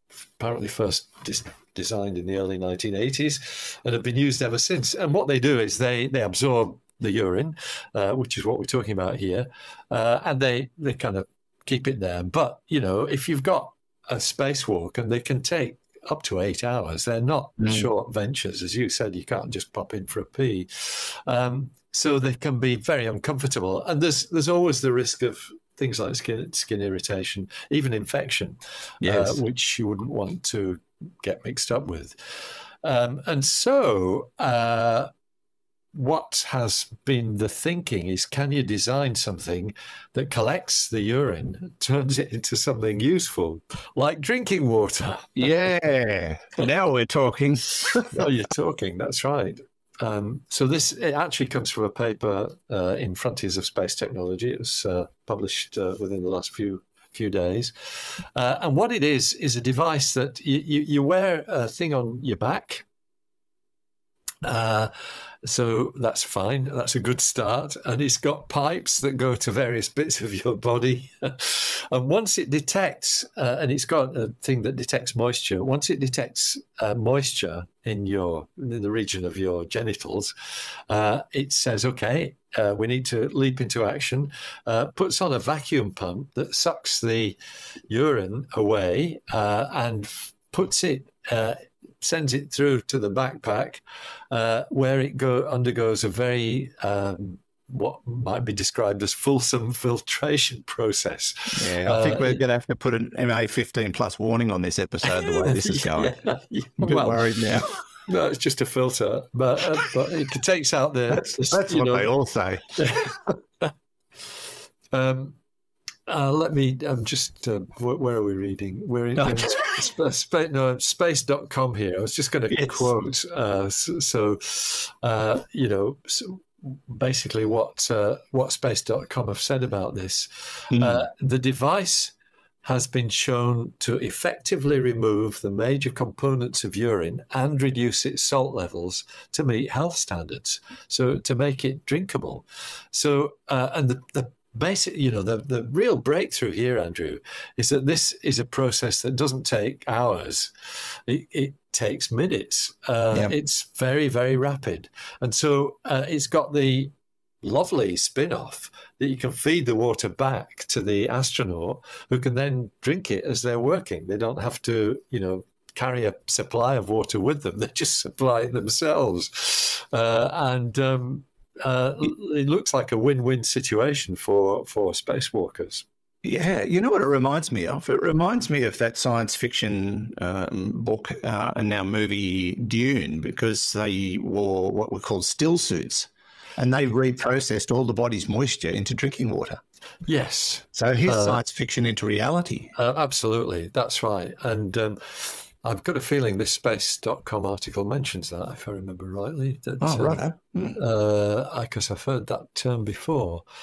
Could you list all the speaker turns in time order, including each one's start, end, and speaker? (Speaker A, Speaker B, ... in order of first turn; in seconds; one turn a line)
Speaker A: 0.4-35.1
Speaker B: 17.6-17.9
Speaker B: 29.0-29.4
Speaker A: 35.9-45.4
Speaker B: 45.4-48.2
Speaker A: 48.1-62.8
Speaker A: 64.4-64.9
Speaker A: 65.4-80.3
Speaker A: 80.9-87.4
Speaker A: 87.9-102.4
Speaker B: 101.5-106.1
Speaker A: 105.1-112.1
Speaker B: 106.8-107.7
Speaker B: 111.3-112.7
Speaker A: 112.8-113.7
Speaker A: 114.9-115.4
Speaker A: 116.1-175.8
Speaker B: 119.2-119.7
Speaker B: 122.5-122.9
Speaker B: 130.7-131.1
Speaker B: 176.2-189.6
Speaker A: 190.1-191.4
Speaker B: 190.7-192.7
Speaker A: 192.7-200.2
Speaker B: 199.8-200.8
Speaker A: 200.7-203.4